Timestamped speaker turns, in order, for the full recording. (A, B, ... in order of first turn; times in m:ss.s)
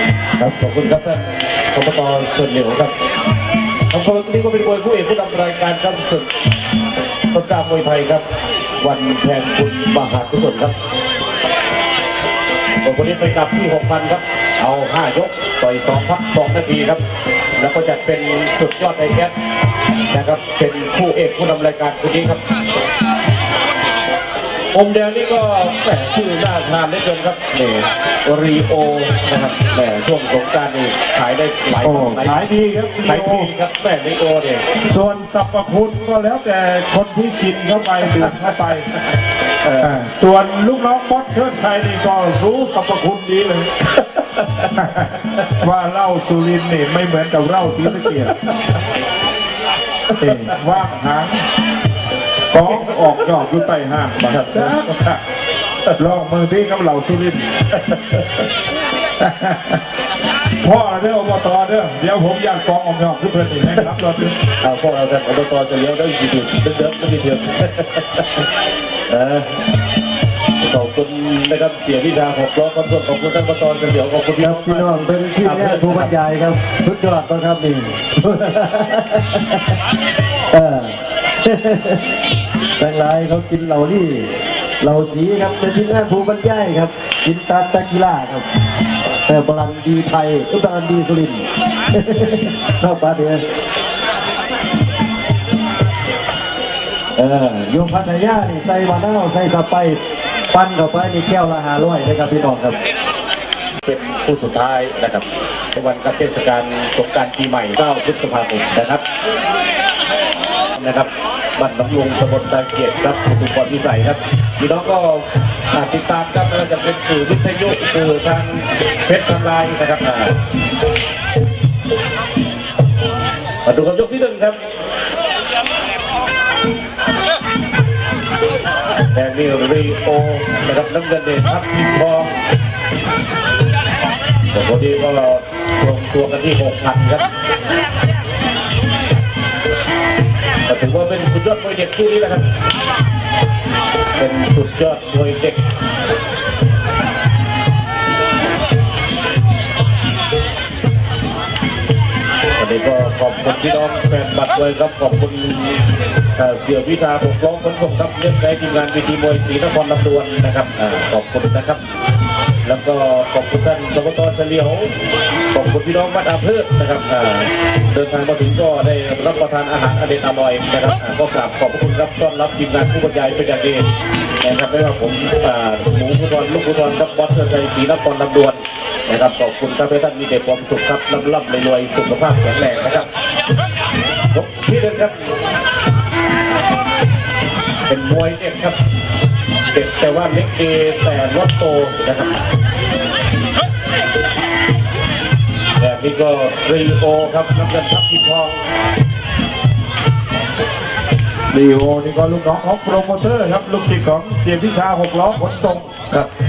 0:00.4-0:02.9 A
0:03.9-0:06.3 A
0:07.3-0:08.2 A
0:08.8-0:10.7 A
0:12.8-0:17.0 A
0:17.6-0:19.3 A
0:20.1-0:22.4 A
0:24.7-0:32.4 A
0:31.8-0:33.5 B
0:33.0-0:34.6 A
0:34.8-0:38.9 B
0:38.2-0:38.5 A
0:39.6-0:40.0 A
0:39.8-0:43.7 B
0:44.3-0:44.7 A
0:44.8-0:48.5 B
0:50.2-0:51.4 B
0:52.5-0:55.2 B
0:54.2-0:55.0 A
0:56.0-0:57.5 B
0:57.9-0:58.2 A
0:59.2-0:59.8 B
1:00.6-1:04.4 B
1:03.7-1:03.9 A
1:04.6-1:08.4 A
1:09.1-1:09.5 A
1:10.6-1:16.1 A
1:14.4-1:19.7 C
1:20.5-1:22.0 C
1:22.8-1:28.4 C
1:29.2-1:33.4 C
1:37.2-1:42.8 C
1:43.8-1:49.0 A
1:50.8-2:00.4 A
2:03.6-2:04.6 A
2:09.1-2:12.4 A
2:14.5-2:17.3 A
2:20.7-2:22.4 A
2:24.2-2:25.6 A
2:32.6-2:35.8 A
2:36.4-2:41.8 A
2:42.6-2:44.9 A
2:45.5-2:53.9 A
2:54.4-3:03.1 A
3:04.3-3:05.2 A
3:07.9-3:08.8 A
3:09.7-3:12.4 A
3:15.8-3:18.6 A
3:21.5-3:25.9 B